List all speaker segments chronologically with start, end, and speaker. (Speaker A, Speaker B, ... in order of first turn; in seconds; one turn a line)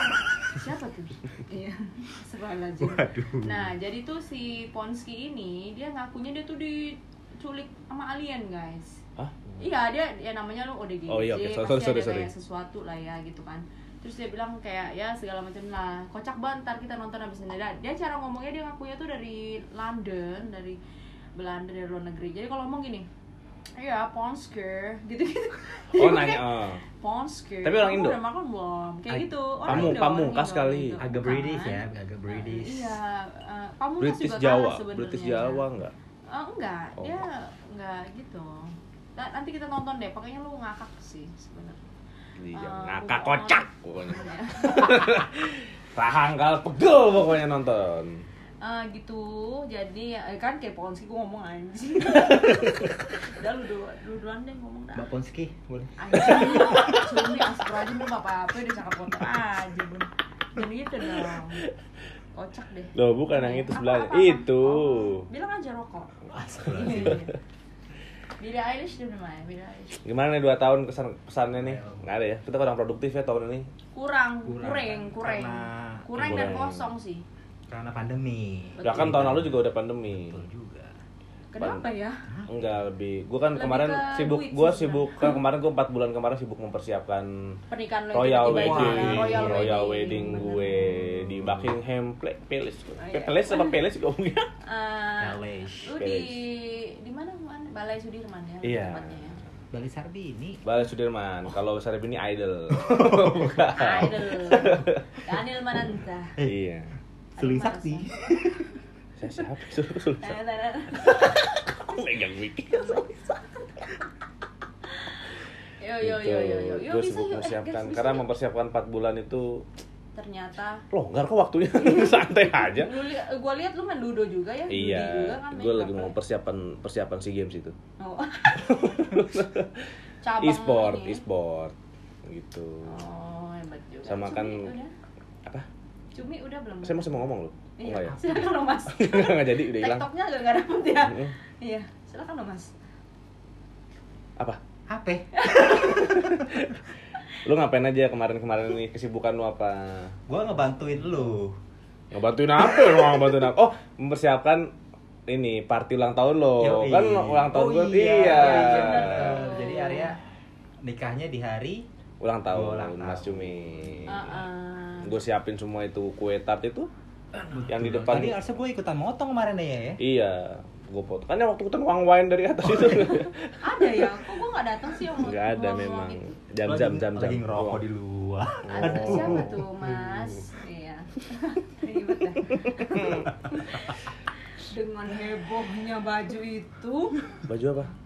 Speaker A: 0.4-9.0
Speaker B: 2.8-3.7
Speaker A: 9.6-20.8
Speaker C: 11.1-12.3
Speaker A: 21.4-23.1
Speaker A: 23.8-26.4
Speaker C: 25.9-26.8
Speaker A: 27.0-35.6
Speaker C: 27.6-28.2
Speaker B: 29.1-30.1
Speaker C: 29.7-31.1
Speaker B: 31.0-33.0
Speaker C: 34.0-35.9
Speaker A: 36.3-41.9
Speaker C: 37.0-37.2
Speaker C: 42.4-48.1
Speaker A: 42.5-45.0
Speaker A: 48.6-55.1
Speaker B: 54.9-57.0
Speaker A: 56.0-61.7
Speaker A: 62.3-66.2
Speaker C: 63.0-65.3
Speaker B: 66.3-67.3
Speaker A: 66.7-67.3
Speaker A: 68.4-70.0
Speaker C: 70.0-73.7
Speaker B: 71.6-72.1
Speaker A: 73.9-77.2
Speaker B: 74.5-76.3
Speaker C: 76.2-76.9
Speaker B: 77.7-81.0
Speaker A: 78.8-79.2
Speaker C: 78.8-80.4
Speaker A: 81.5-82.2
Speaker C: 81.6-81.8
Speaker C: 82.5-87.6
Speaker A: 83.6-85.4
Speaker A: 87.7-90.9
Speaker C: 88.1-94.5
Speaker B: 88.4-89.7
Speaker B: 90.3-91.1
Speaker A: 93.0-93.8
Speaker A: 94.6-99.4
Speaker B: 95.2-95.9
Speaker C: 96.0-96.4
Speaker C: 98.6-99.2
Speaker B: 99.7-100.6
Speaker C: 100.7-105.0
Speaker A: 103.6-106.3
Speaker C: 106.4-106.9
Speaker A: 107.4-108.1
Speaker B: 107.4-108.7
Speaker C: 109.2-110.4
Speaker A: 110.2-111.9
Speaker C: 110.9-113.0
Speaker A: 112.7-113.7
Speaker A: 114.9-118.2
Speaker C: 116.0-119.7
Speaker A: 120.2-120.8
Speaker C: 120.9-122.9
Speaker A: 121.7-126.2
Speaker C: 124.7-127.8
Speaker A: 128.0-128.9
Speaker C: 128.5-129.7
Speaker A: 130.2-131.2
Speaker C: 130.4-131.8
Speaker C: 132.3-133.0
Speaker A: 132.8-134.9
Speaker C: 134.1-134.7
Speaker A: 136.2-137.2
Speaker C: 136.8-138.2
Speaker A: 137.8-142.7
Speaker C: 138.9-140.1
Speaker C: 141.0-141.3
Speaker B: 144.9-145.3
Speaker A: 145.3-146.4
Speaker C: 145.9-146.8
Speaker C: 147.4-150.1
Speaker B: 150.3-151.6
Speaker C: 152.1-154.7
Speaker C: 155.3-159.4
Speaker B: 156.6-160.2
Speaker A: 158.2-160.2
Speaker B: 160.8-161.9
Speaker C: 162.2-164.3
Speaker B: 162.5-164.3
Speaker A: 164.1-165.1
Speaker C: 165.0-166.9
Speaker B: 167.5-170.0
Speaker C: 167.7-168.4
Speaker C: 170.0-174.0
Speaker A: 173.1-176.3
Speaker C: 175.2-177.8
Speaker B: 176.6-179.5
Speaker C: 178.7-179.5
Speaker A: 178.7-187.3
Speaker C: 182.7-183.3
Speaker C: 187.4-187.9